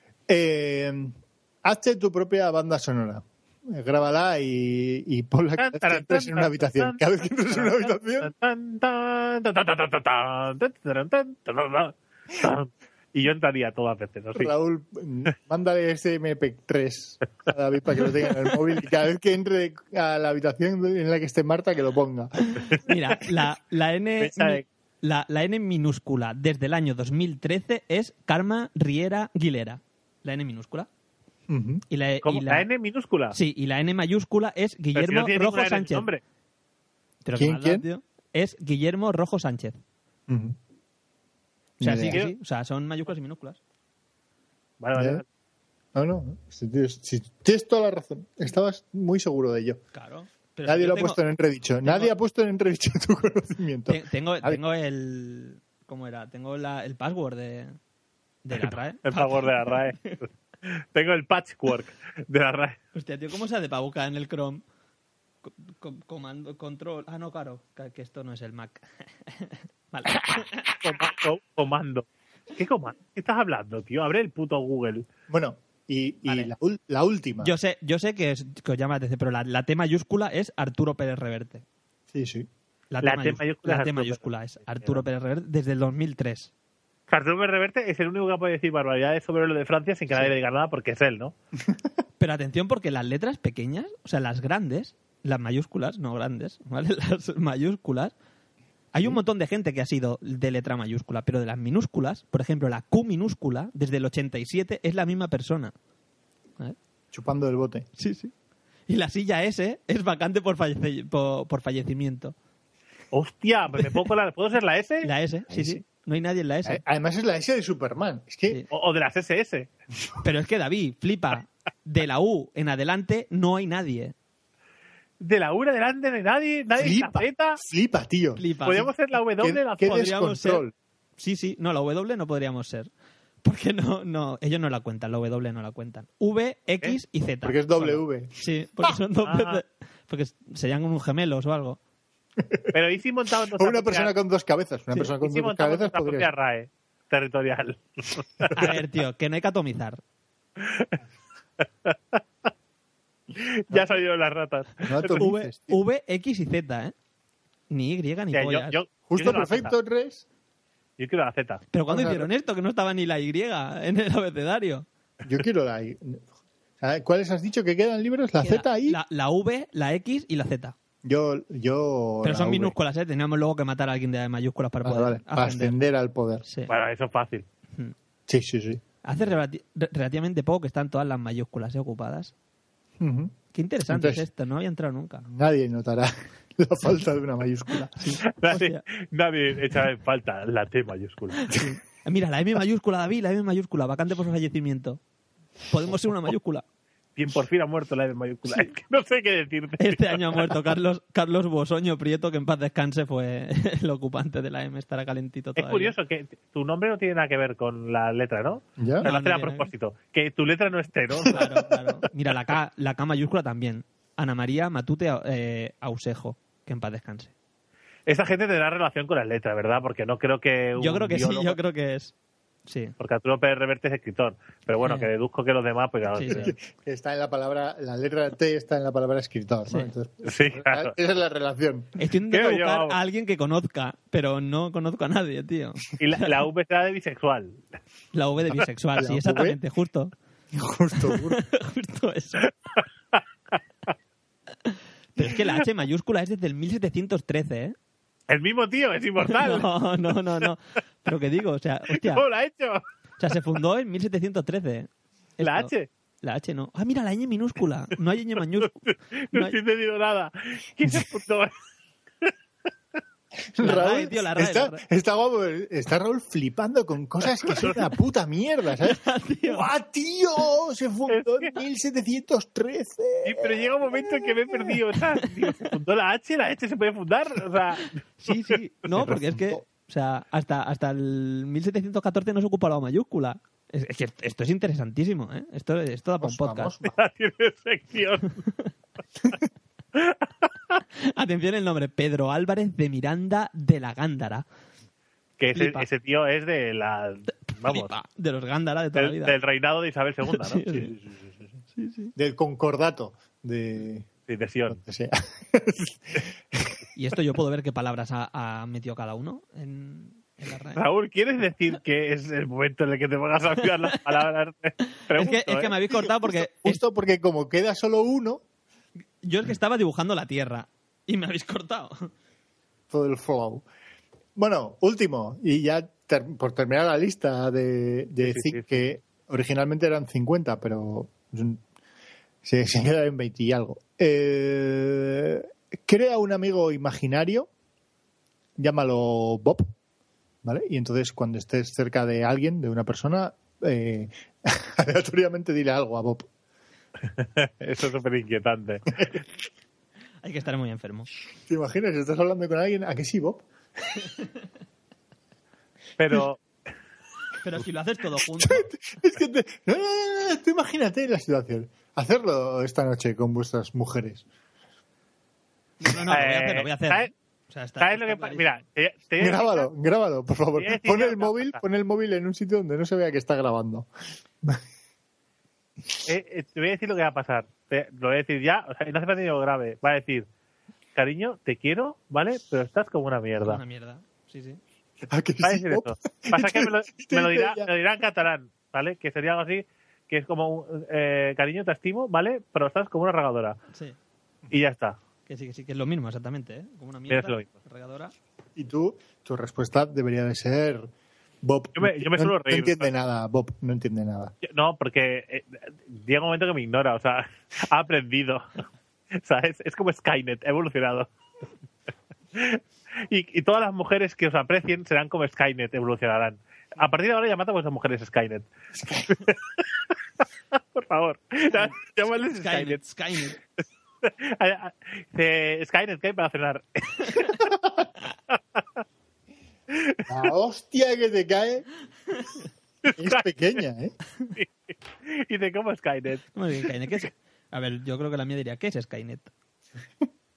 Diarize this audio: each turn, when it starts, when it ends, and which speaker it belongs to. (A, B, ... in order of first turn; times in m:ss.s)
0:00.3-0:08.3 A
0:05.6-0:14.5 B
0:14.3-0:22.8 A
0:22.8-0:30.9 C
0:24.2-0:24.6 B
0:31.5-0:31.8 A
0:31.9-0:32.7 C
0:32.2-0:33.4 B
0:33.3-0:36.1 C
0:35.0-0:36.2 B
0:37.2-0:39.8 C
0:37.4-0:37.8 A
0:40.3-0:40.6 A
0:41.8-0:42.2 A
0:41.8-0:43.6 C
0:41.9-0:42.4 B
0:44.8-0:45.2 B
0:45.0-0:45.2 A
0:46.0-0:49.8 A
0:49.9-0:51.2 C
0:50.7-0:54.6 A
0:51.8-0:52.1 C
0:53.9-0:57.8 C
0:58.4-1:00.2 C
0:58.6-1:02.8 B
1:03.0-1:04.6 C
1:05.4-1:10.8 C
1:10.7-1:15.1 B
1:15.3-1:17.5 A
1:16.3-1:16.5 C
1:17.4-1:21.6 C
1:22.1-1:22.5 A
1:22.9-1:26.5 C
1:23.0-1:24.2 B
1:27.1-1:31.3 B
1:31.6-1:31.9 A
1:32.2-1:38.1 C
1:38.9-1:45.7 C
1:47.1-1:47.9 A
1:48.0-1:48.3 C
1:48.9-1:52.4 C
1:53.1-1:55.1 B
1:55.0-1:56.8 C
1:55.5-1:55.8 A
1:56.6-1:58.6 A
1:58.7-1:59.7 B
2:00.2-2:04.1 C
2:05.2-2:07.6 B
2:06.8-2:08.8 A
2:08.4-2:08.8 C
2:08.6-2:10.3 B
2:09.4-2:10.7 A
2:09.9-2:10.6 C
2:11.2-2:12.9 C
2:13.4-2:21.8 C
2:17.4-2:19.0 A
2:19.2-2:19.6 B
2:22.4-2:22.8 A
2:22.7-2:24.1 B
2:23.5-2:26.3 A
2:24.9-2:28.6 B
2:28.5-2:30.0 C
2:30.6-2:31.0 B
2:31.8-2:32.2 B
2:33.3-2:35.3 B
2:34.8-2:35.8 A
2:35.2-2:37.0 C
2:37.7-2:39.5 C
2:38.3-2:39.7 B
2:39.1-2:40.2 A
2:41.0-2:41.7 B
2:41.7-2:44.9 C
2:41.9-2:42.3 A
2:45.2-2:46.3 A
2:46.8-2:49.0 A
2:48.4-2:50.8 C
2:51.0-2:52.8 A
2:52.2-2:55.8 C
2:54.8-2:56.4 A
2:56.5-2:56.7 C
2:56.7-2:57.5 B
2:58.3-2:58.8 A
2:59.0-3:02.3 C
3:03.0-3:03.4 A
3:03.5-3:05.3 C
3:03.9-3:04.2 A
3:05.2-3:08.2 A
3:07.8-3:08.8 C
3:08.3-3:11.6 B
3:11.4-3:15.0 C
3:15.7-3:16.6 C
3:17.2-3:20.6 B
3:19.8-3:25.9 C
3:25.6-3:31.6 B
3:28.8-3:29.0 A
3:29.0-3:29.7 C
3:31.3-3:37.3 C
3:38.1-3:41.6 B
3:40.8-3:42.1 C
3:42.7-3:43.0 C
3:43.0-3:46.5 B
3:44.8-3:45.1 C
3:46.1-3:46.6 C
3:46.3-3:51.9 A
3:50.2-3:50.9 B
3:52.0-3:56.4 C
3:52.3-3:53.0 B
3:56.0-3:57.7 B
3:58.1-4:00.1 C
3:59.0-3:59.6 A
4:00.5-4:01.4 A
4:01.0-4:02.5 C
4:02.7-4:03.2 B
4:04.6-4:07.8 C
4:08.3-4:09.7 B
4:09.2-4:12.2 C
4:12.0-4:12.8 B
4:13.2-4:15.7 C
4:15.4-4:15.9 B
4:16.2-4:19.6 C
4:18.9-4:21.6 B
4:23.5-4:34.8 A
4:23.6-4:24.8 C
4:27.4-4:27.8 B
4:28.8-4:29.7 C
4:31.1-4:31.5 B
4:33.2-4:38.0 B
4:38.2-4:46.7 C
4:38.5-4:39.2 B
4:39.0-4:39.6 A
4:46.2-4:46.9 A
4:46.8-4:48.4 B
4:50.0-4:50.8 B
4:51.0-4:54.4 C
4:55.4-4:57.9 B
4:55.5-4:55.9 C
4:57.6-4:59.4 C
4:59.0-5:01.0 B
5:00.3-5:00.9 C
5:01.8-5:02.1 C
5:02.2-5:04.1 A
5:04.3-5:04.8 B
5:04.7-5:06.8 A
5:07.0-5:10.8 C
5:10.8-5:15.8 B
5:13.6-5:14.0 C
5:15.0-5:16.8 C
5:15.9-5:18.4 A
5:19.2-5:22.1 C
5:22.9-5:23.6 A
5:24.4-5:31.6 A
5:28.2-5:28.7 B
5:32.4-5:37.5 A
5:38.6-5:39.7 A
5:40.4-5:46.3 A
5:47.2-5:49.1 B
5:50.2-5:51.1 C
5:51.5-5:53.5 A
5:54.0-5:54.4 C
5:56.0-5:56.4 B
5:57.4-5:58.7 C
5:58.4-6:04.2 A
6:05.8-6:08.4 C
6:06.1-6:07.1 B
6:07.8-6:09.7 B
6:09.2-6:13.9 A
6:10.6-6:11.6 B
6:16.0-6:20.3 B
6:21.0-6:23.6 B
6:23.4-6:24.6 C
6:25.0-6:27.7 A
6:25.4-6:33.6 B
6:34.5-6:35.0 B
6:35.3-6:38.1 C
6:37.1-6:37.5 B
6:38.6-6:40.9 A
6:41.4-6:44.3 A
6:41.8-6:42.9 B
6:44.4-6:48.6 B
6:49.1-6:51.1 B
6:52.3-6:58.5 B
6:58.8-6:59.2 A
6:59.1-6:59.8 B
7:00.7-7:02.8 B
7:02.3-7:03.4 C
7:04.0-7:07.5 B
7:09.7-7:10.2 B
7:10.1-7:11.7 A
7:12.8-7:13.3 B
7:12.9-7:13.9 A
7:14.3-7:16.3 B
7:16.4-7:19.3 C